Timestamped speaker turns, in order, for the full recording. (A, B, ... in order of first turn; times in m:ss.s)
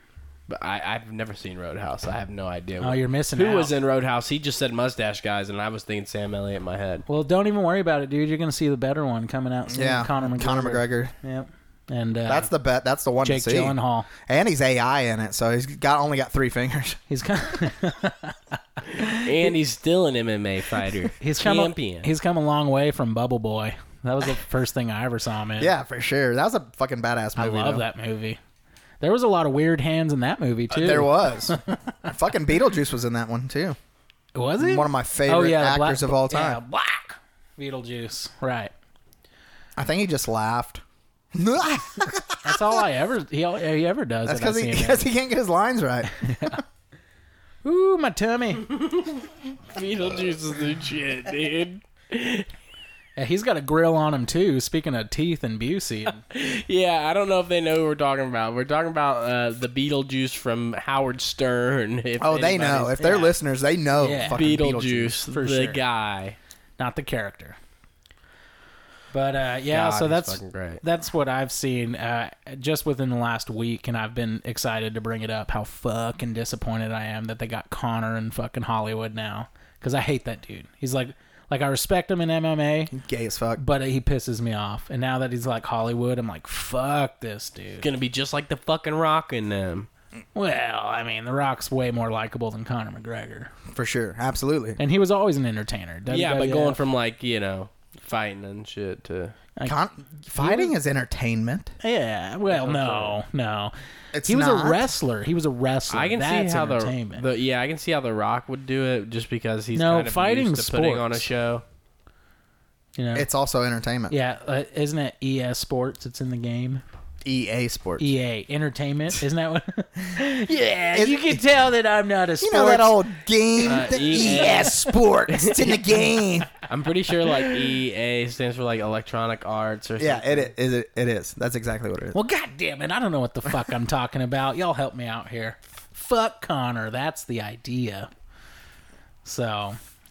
0:00.5-0:07.0 A
0:02.8-0:03.7 B
0:07.1-0:12.5 B
0:09.7-0:11.1 C
0:12.3-0:13.7 C
0:13.2-0:14.1 B
0:14.3-0:17.0 C
0:17.1-0:19.2 B
0:19.1-0:22.1 A
0:21.2-0:25.7 B
0:25.6-0:27.8 C
0:27.4-0:28.4 B
0:29.0-0:31.8 B
0:30.7-0:33.8 C
0:34.3-0:38.7 B
0:34.6-0:36.6 C
0:39.8-0:40.8 C
0:41.3-0:42.8 C
0:42.4-0:45.1 B
0:44.2-0:46.2 C
0:46.2-0:46.6 B
0:47.6-0:48.7 B
0:48.7-0:52.5 A
0:53.2-0:56.2 B
0:56.3-1:02.9 A
1:02.2-1:05.1 C
1:03.0-1:03.3 B
1:04.0-1:04.6 B
1:04.3-1:06.4 A
1:05.3-1:05.8 B
1:06.8-1:07.6 B
1:09.1-1:22.9 B
1:09.7-1:10.8 A
1:22.9-1:23.6 C
1:23.6-1:27.9 B
1:27.8-1:29.9 A
1:30.3-1:33.5 B
1:33.7-1:34.8 C
1:34.8-1:36.8 B
1:36.1-1:39.3 A
1:39.6-1:41.7 C
1:40.4-1:40.7 B
1:41.8-1:43.7 B
1:42.5-1:43.2 A
1:44.1-1:44.8 C
1:44.2-1:47.2 B
1:45.9-1:51.6 A
1:49.7-1:51.2 B
1:53.0-1:53.3 B
1:53.1-1:54.1 C
1:54.1-1:56.8 B
1:57.2-1:58.1 C
1:58.0-2:03.0 B
2:00.9-2:01.4 C
2:02.4-2:06.5 C
2:03.6-2:05.9 A
2:03.6-2:04.8 B
2:06.7-2:10.5 A
2:10.0-2:12.2 C
2:12.1-2:18.1 B
2:19.2-2:19.8 B